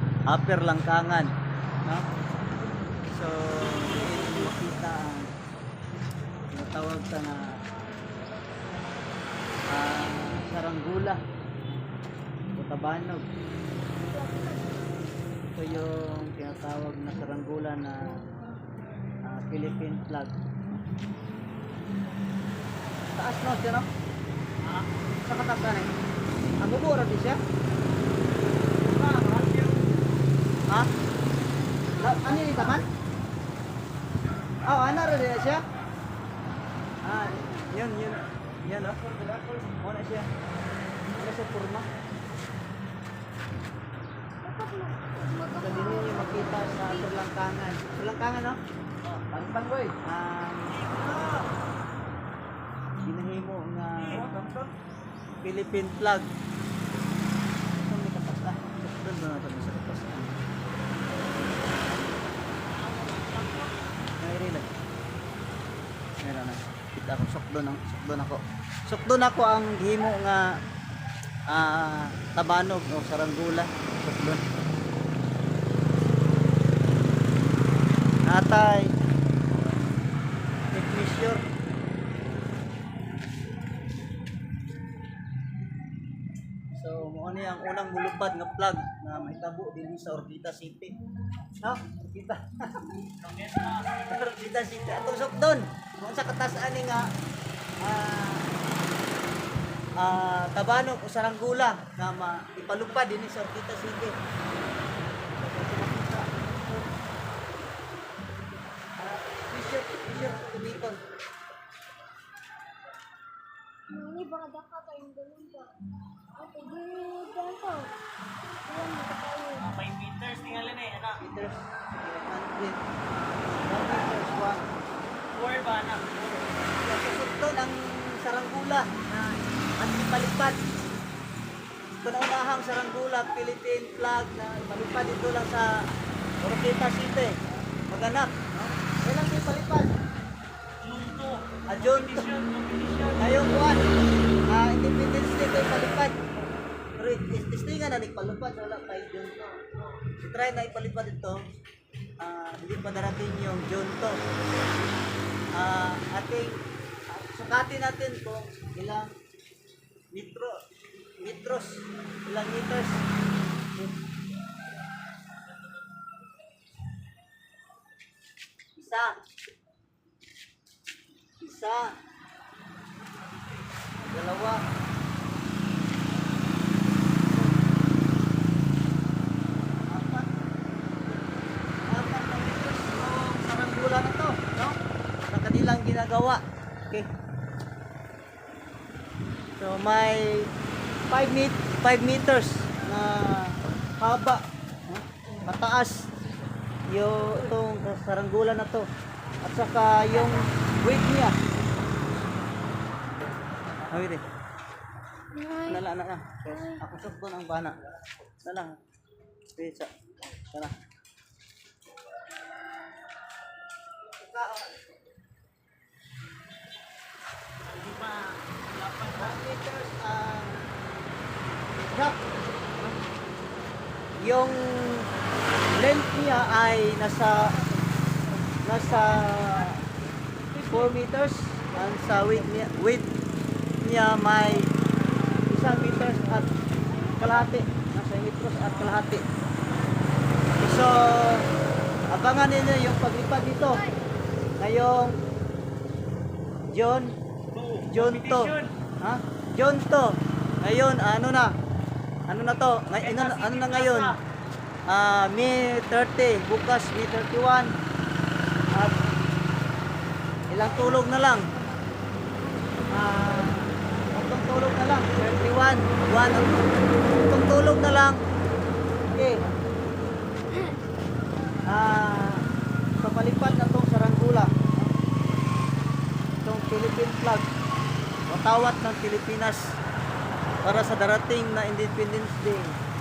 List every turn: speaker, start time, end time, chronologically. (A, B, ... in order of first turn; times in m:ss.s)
0:00.3-0:01.3 A
0:03.1-0:05.3 A
0:06.5-0:07.5 A
0:09.7-0:11.2 A
0:12.6-0:13.3 A
0:14.1-0:15.0 B
0:15.5-0:18.2 A
0:19.2-0:20.4 A
0:23.1-0:23.9 A
0:24.6-0:24.9 C
0:25.2-0:26.0 A
0:26.6-0:27.4 A
0:28.9-0:29.9 C
0:31.9-0:32.8 B
0:32.0-0:32.9 A
0:34.6-0:35.6 A
0:37.0-0:39.1 A
0:37.1-0:37.9 B
0:39.1-0:39.6 C
0:39.6-0:40.3 A
0:41.1-0:41.9 A
0:44.4-0:47.1 B
0:45.6-0:48.6 A
0:49.3-0:50.8 A
0:50.7-0:51.5 C
0:53.0-0:54.7 A
0:54.0-0:54.5 C
0:55.4-0:56.3 A
0:57.8-1:00.4 A
1:02.7-1:03.9 C
1:04.2-1:04.7 A
1:06.2-1:10.4 A
1:11.5-1:14.4 A
1:18.2-1:18.9 A
1:20.7-1:21.4 A
1:26.7-1:30.9 A
1:31.6-1:33.0 A
1:33.2-1:34.3 C
1:34.0-1:37.1 A
1:37.8-1:38.5 A
1:40.0-1:44.2 A
1:45.4-1:46.3 A
1:49.0-1:51.0 A
1:53.9-1:55.8 B
1:56.4-1:57.9 B
1:58.6-1:59.7 B
1:59.6-2:01.2 C
2:01.2-2:02.8 A
2:03.5-2:04.7 A
2:05.3-2:06.5 C
2:06.8-2:09.1 A
2:09.8-2:10.7 A
2:12.0-2:15.9 A
2:16.4-2:20.0 A
2:20.8-2:23.4 C
2:21.7-2:22.2 A
2:23.2-2:23.9 A
2:24.5-2:26.2 A
2:27.0-2:29.6 A
2:30.2-2:31.4 A
2:32.2-2:34.2 A
2:35.6-2:39.1 A
2:40.1-2:40.6 A
2:41.2-2:43.0 A
2:48.8-2:49.2 A
2:51.4-2:52.0 A
2:54.1-2:54.6 A
2:59.9-3:00.4 A
3:00.9-3:01.2 A
3:01.8-3:04.8 A
3:05.3-3:07.1 A
3:09.6-3:10.5 A
3:11.1-3:16.0 A
3:16.9-3:18.9 A
3:19.4-3:21.4 A
3:23.9-3:24.2 A
3:25.3-3:25.8 B
3:25.6-3:27.8 A
3:26.5-3:26.8 B
3:28.4-3:28.8 A
3:29.5-3:30.7 A
3:34.1-3:34.8 A
3:37.6-3:39.4 C
3:39.2-3:40.6 A
3:41.9-3:42.2 A
3:44.2-3:45.1 A
3:45.7-3:47.6 A
3:48.6-3:49.8 A
3:50.6-3:53.1 A
3:53.8-3:54.7 A
3:55.5-3:56.5 A
3:57.1-3:59.2 A
4:00.6-4:01.5 A
4:02.1-4:03.8 A
4:03.6-4:04.0 B
4:04.6-4:05.2 A
4:06.7-4:07.1 A
4:07.5-4:08.7 C
4:07.9-4:11.5 A
4:12.3-4:14.1 A
4:12.9-4:14.2 C
4:14.9-4:17.7 A
4:18.7-4:19.0 A
4:20.5-4:21.5 A
4:22.9-4:26.6 A
4:27.1-4:28.2 A
4:29.1-4:29.5 A
4:30.5-4:30.8 B
4:31.6-4:32.4 A
4:33.0-4:34.9 A
4:36.4-4:37.5 A
4:38.3-4:39.6 A
4:40.6-4:42.8 A